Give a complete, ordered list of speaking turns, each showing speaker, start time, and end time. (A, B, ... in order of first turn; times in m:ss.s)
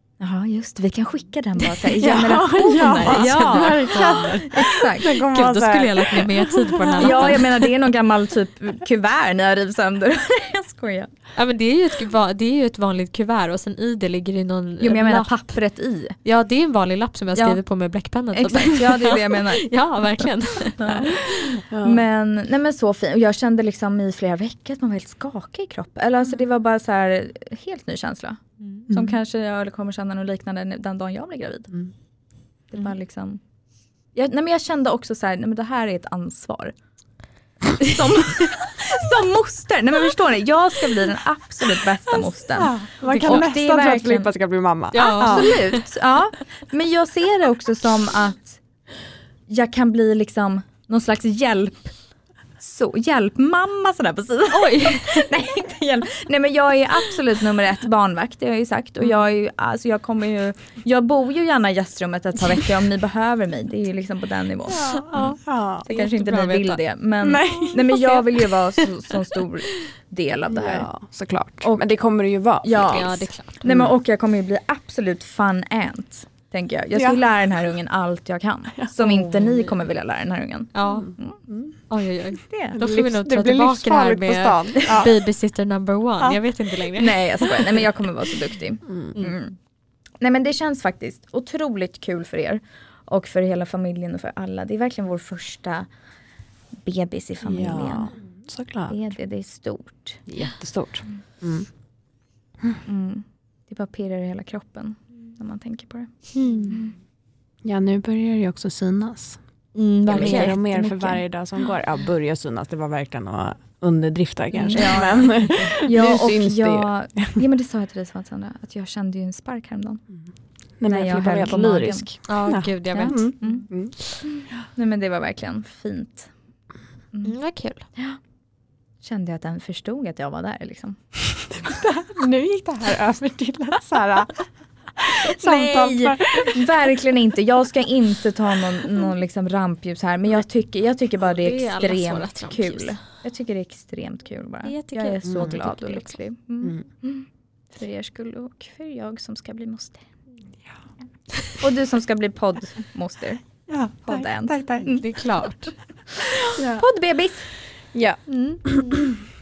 0:00.2-0:05.2 A
0:02.0-0:07.4 B
0:02.6-0:07.7 C
0:07.0-0:11.1 A
0:11.4-0:15.3 C
0:14.8-0:16.2 A
0:16.2-0:21.6 C
0:18.3-0:19.7 A
0:20.8-0:31.7 A
0:21.7-0:22.0 B
0:32.7-0:33.4 A
0:34.1-0:36.7 A
0:37.8-0:44.3 A
0:42.6-0:45.6 B
0:43.0-0:43.4 C
0:44.9-0:45.8 C
0:45.1-0:48.6 A
0:49.5-0:51.9 A
0:52.6-1:05.0 A
0:54.5-0:55.2 C
1:04.7-1:05.9 B
1:04.8-1:06.8 C
1:05.9-1:10.9 A
1:07.2-1:08.2 B
1:07.5-1:07.9 C
1:10.5-1:13.1 B
1:11.6-1:11.9 A
1:12.6-1:21.4 A
1:12.8-1:13.5 C
1:13.7-1:13.9 B
1:18.8-1:19.6 B
1:20.7-1:21.1 C
1:21.0-1:21.7 B
1:21.9-1:27.5 C
1:22.5-1:22.8 A
1:22.7-1:25.2 B
1:27.0-1:29.6 A
1:28.9-1:29.1 B
1:30.2-1:35.9 A
1:36.8-1:38.1 A
1:37.4-1:39.0 B
1:38.9-1:40.2 A
1:40.3-1:41.7 B
1:42.9-1:46.1 A
1:46.4-1:46.8 C
1:47.6-1:49.4 B
1:49.8-1:50.6 C
1:50.1-1:51.2 A
1:50.1-1:57.4 B
1:54.5-1:55.7 C
1:54.7-2:00.0 A
2:00.8-2:04.1 B
2:00.9-2:02.1 A
2:02.3-2:03.3 C
2:03.0-2:03.7 A
2:04.3-2:06.3 A
2:07.2-2:07.9 C
2:09.0-2:11.0 A
2:11.5-2:14.4 B
2:15.0-2:16.6 B
2:15.1-2:30.0 A
2:21.3-2:23.0 C
2:24.6-2:26.2 C
2:25.2-2:25.5 B
2:31.6-2:33.4 A
2:33.7-2:34.9 B
2:34.1-2:35.0 A
2:34.9-2:35.7 C
2:36.3-2:37.5 A
2:36.6-2:36.9 B
2:37.9-2:38.9 B
2:38.3-2:39.0 C